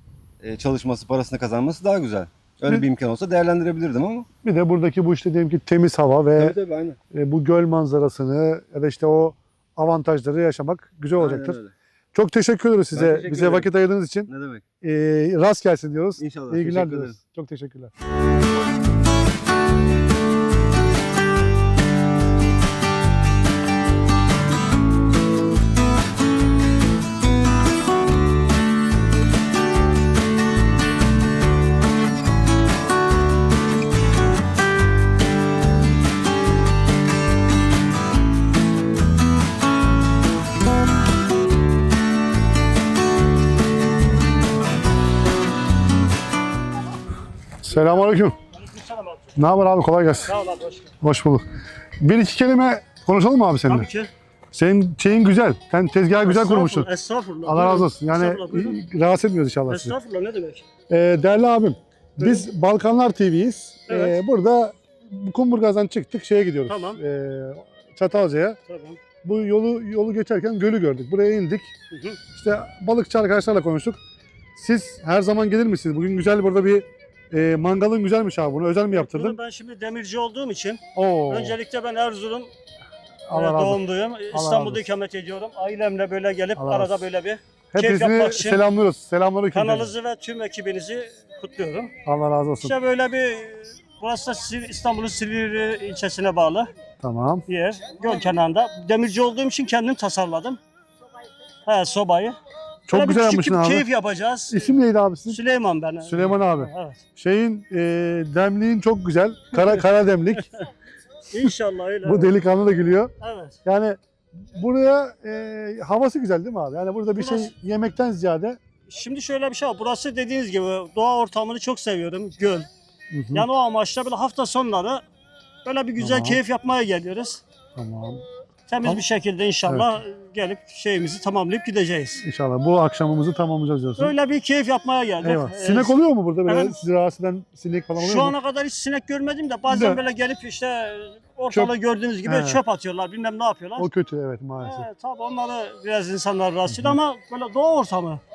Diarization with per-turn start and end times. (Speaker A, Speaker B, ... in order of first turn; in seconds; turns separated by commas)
Speaker A: 0.4-4.3, Speaker B: 4.4-6.6, Speaker A: 6.3-7.0, Speaker B: 7.1-11.6, Speaker A: 11.2-11.7, Speaker B: 12.1-14.3, Speaker A: 12.9-13.7, Speaker A: 14.3-14.6, Speaker B: 14.8-17.9, Speaker A: 16.2-17.2, Speaker B: 47.6-48.4, Speaker C: 47.7-49.3, Speaker B: 49.4-50.3, Speaker C: 50.3-50.9, Speaker B: 51.0-51.4, Speaker B: 52.0-53.9, Speaker C: 53.7-54.1, Speaker B: 54.5-56.9, Speaker C: 56.2-58.8, Speaker B: 57.5-59.9, Speaker C: 59.7-60.6, Speaker B: 60.9-68.6, Speaker C: 62.2-62.4, Speaker C: 63.9-64.2, Speaker C: 66.7-67.0, Speaker C: 68.7-69.0, Speaker B: 69.2-71.7, Speaker C: 71.9-72.2, Speaker B: 72.3-74.0, Speaker B: 74.5-79.4, Speaker C: 78.9-82.5, Speaker B: 80.9-81.6, Speaker B: 83.3-83.8, Speaker C: 83.3-88.6, Speaker B: 84.3-84.8, Speaker B: 86.6-87.0, Speaker B: 87.7-89.9, Speaker C: 89.5-91.9, Speaker B: 92.0-92.7, Speaker C: 92.6-96.7, Speaker B: 97.0-97.4, Speaker C: 97.5-100.6, Speaker C: 101.7-102.4, Speaker B: 102.9-103.8, Speaker C: 102.9-104.8, Speaker B: 104.5-105.4, Speaker C: 105.3-107.0, Speaker B: 106.0-110.5, Speaker C: 109.5-109.8, Speaker C: 111.3-112.3, Speaker B: 112.0-113.1, Speaker C: 113.2-113.6, Speaker B: 113.6-114.0, Speaker B: 114.5-118.6, Speaker C: 117.2-117.5, Speaker C: 118.9-122.7, Speaker B: 123.1-123.5, Speaker C: 123.3-125.0, Speaker C: 125.6-127.4, Speaker B: 126.0-126.4, Speaker B: 127.8-128.2, Speaker C: 128.7-132.2, Speaker B: 129.7-129.9, Speaker B: 132.2-134.1, Speaker C: 134.0-135.9, Speaker B: 135.2-138.3, Speaker C: 136.5-136.8, Speaker C: 138.0-143.9, Speaker B: 139.7-140.0, Speaker B: 142.2-142.6, Speaker B: 143.8-144.9, Speaker C: 144.6-148.2, Speaker B: 146.7-146.9